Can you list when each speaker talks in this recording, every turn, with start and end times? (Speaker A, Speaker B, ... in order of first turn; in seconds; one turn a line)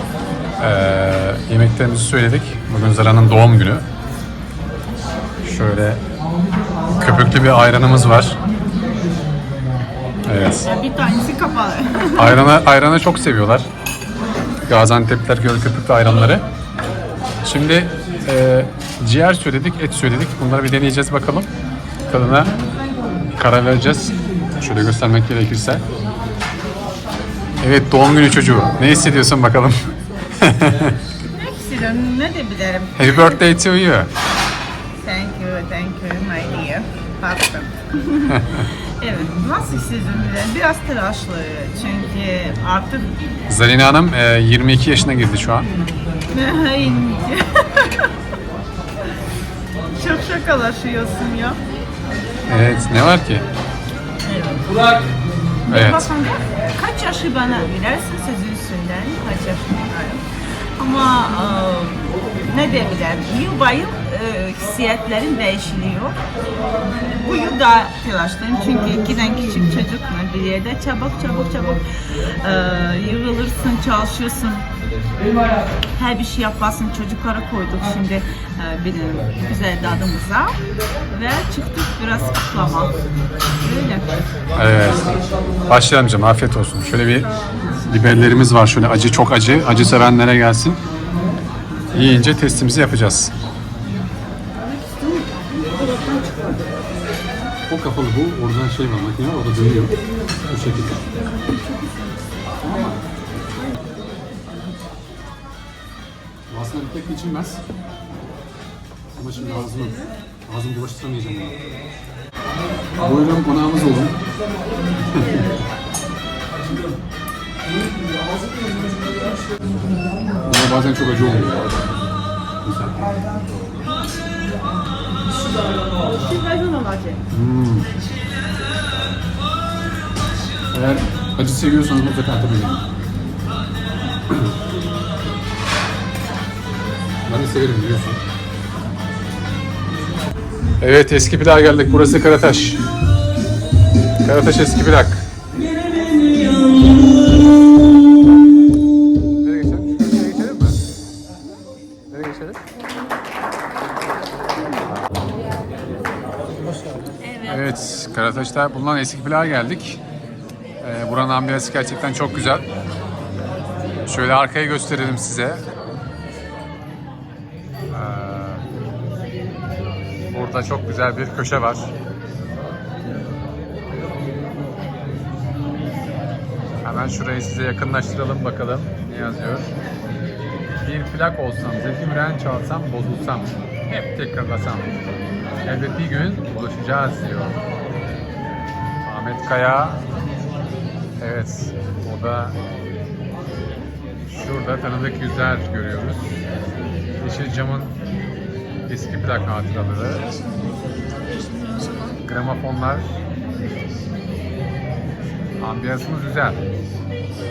Speaker A: 0.6-3.9
Speaker A: 5.4-6.0
Speaker A: 7.0-8.4
Speaker A: 10.3-10.7
Speaker B: 10.6-12.5
Speaker A: 12.2-13.7
Speaker A: 14.7-16.4
Speaker A: 17.4-21.5
Speaker A: 22.1-22.5
Speaker A: 23.4-25.8
Speaker A: 27.6-29.8
Speaker A: 30.4-31.0
Speaker B: 31.3-33.4
Speaker A: 33.0-34.1
Speaker B: 35.0-43.2
Speaker A: 38.3-38.6
Speaker A: 43.5-45.7
Speaker B: 46.3-48.1
Speaker B: 50.0-51.6
Speaker A: 52.5-53.4
Speaker B: 54.2-54.7
Speaker B: 55.7-60.2
Speaker A: 55.7-56.1
Speaker B: 60.8-66.2
Speaker B: 67.1-74.7
Speaker B: 76.0-80.6
Speaker B: 81.1-83.0
Speaker B: 83.6-84.1
Speaker A: 84.5-85.1
Speaker A: 85.7-90.8
Speaker A: 91.9-93.3
Speaker B: 95.0-96.5
Speaker A: 97.7-99.9
Speaker A: 100.5-101.1
Speaker A: 102.6-103.0
Speaker A: 106.5-107.6
Speaker A: 109.2-111.6
Speaker A: 113.0-114.2
Speaker A: 115.1-115.5
Speaker B: 115.2-115.6
Speaker A: 120.4-121.7
Speaker A: 122.6-123.1
Speaker B: 125.9-127.2
Speaker A: 127.3-127.9
Speaker A: 130.7-132.8
Speaker A: 137.2-138.2
Speaker A: 140.8-142.8
Speaker A: 144.2-145.2
Speaker A: 149.4-150.8
Speaker A: 152.1-152.6
Speaker B: 157.2-157.8
Speaker A: 157.5-160.0
Speaker A: 160.8-162.7
Speaker A: 164.1-165.6
Speaker A: 167.9-168.6
Speaker A: 170.3-171.9
Speaker A: 176.8-179.7
Speaker A: 180.8-184.9
Speaker A: 185.7-187.6
Speaker A: 189.0-190.0
Speaker A: 191.2-192.6
Speaker A: 194.3-196.3
Speaker A: 197.2-198.0
Speaker A: 198.9-200.3
Speaker A: 202.2-203.1
Speaker A: 205.6-206.6